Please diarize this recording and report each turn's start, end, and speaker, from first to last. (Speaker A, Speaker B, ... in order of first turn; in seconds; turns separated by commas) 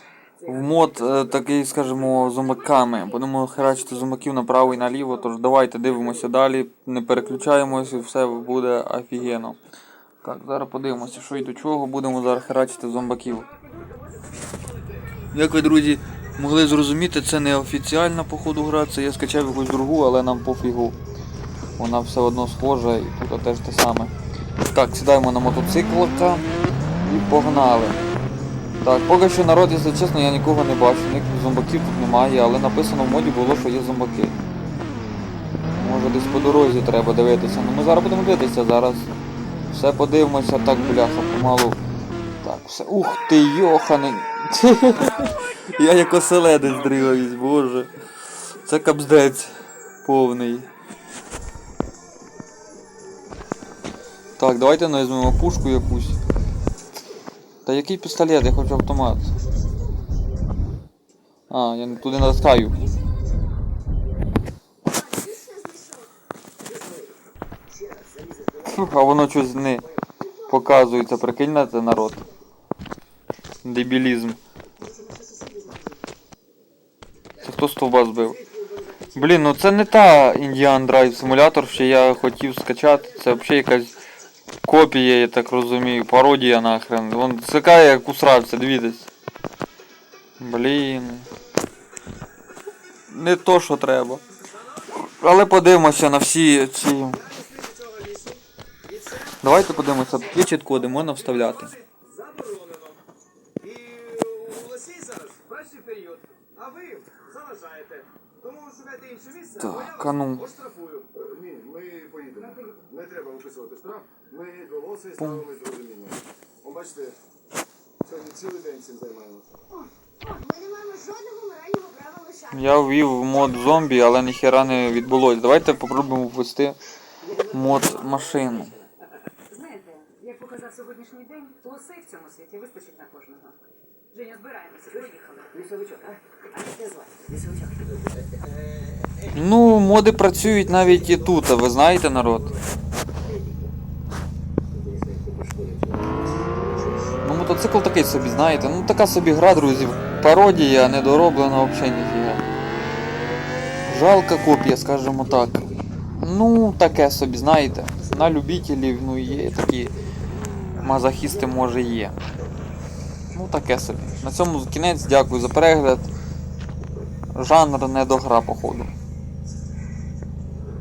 Speaker A: 0.4-9.6, Speaker A: 10.2-13.5, Speaker B: 13.5-14.6, Speaker A: 15.3-20.9, Speaker A: 21.8-24.1, Speaker A: 24.7-26.4, Speaker A: 27.0-28.0, Speaker A: 28.8-34.4, Speaker A: 35.7-39.1, Speaker A: 39.7-41.8, Speaker A: 42.4-47.9, Speaker A: 48.6-49.5, Speaker A: 50.0-50.7, Speaker A: 54.4-56.2, Speaker A: 57.6-59.3, Speaker A: 61.5-62.8, Speaker C: 64.9-66.1, Speaker B: 66.6-67.1, Speaker B: 67.7-68.8, Speaker A: 68.6-69.8, Speaker A: 70.5-72.3, Speaker A: 73.6-74.4, Speaker B: 74.9-75.9, Speaker A: 77.4-78.4, Speaker B: 78.3-79.2, Speaker A: 79.1-83.9, Speaker A: 84.6-89.1, Speaker A: 90.4-91.3, Speaker A: 93.1-94.2, Speaker A: 95.0-97.2, Speaker B: 97.2-99.3, Speaker A: 99.4-101.7, Speaker B: 101.9-103.0, Speaker B: 103.6-109.8, Speaker A: 109.5-110.6, Speaker D: 110.7-117.2, Speaker E: 112.4-112.7, Speaker A: 115.2-115.4, Speaker D: 118.0-119.5, Speaker C: 120.2-122.5, Speaker A: 122.5-126.8, Speaker B: 127.2-128.8, Speaker A: 127.5-128.7, Speaker E: 129.5-133.6, Speaker E: 134.1-135.6, Speaker B: 134.9-137.9, Speaker A: 139.3-142.5, Speaker B: 144.8-147.0, Speaker A: 147.2-152.4, Speaker A: 153.9-159.9, Speaker A: 160.7-162.2, Speaker A: 163.3-166.1, Speaker A: 167.3-168.9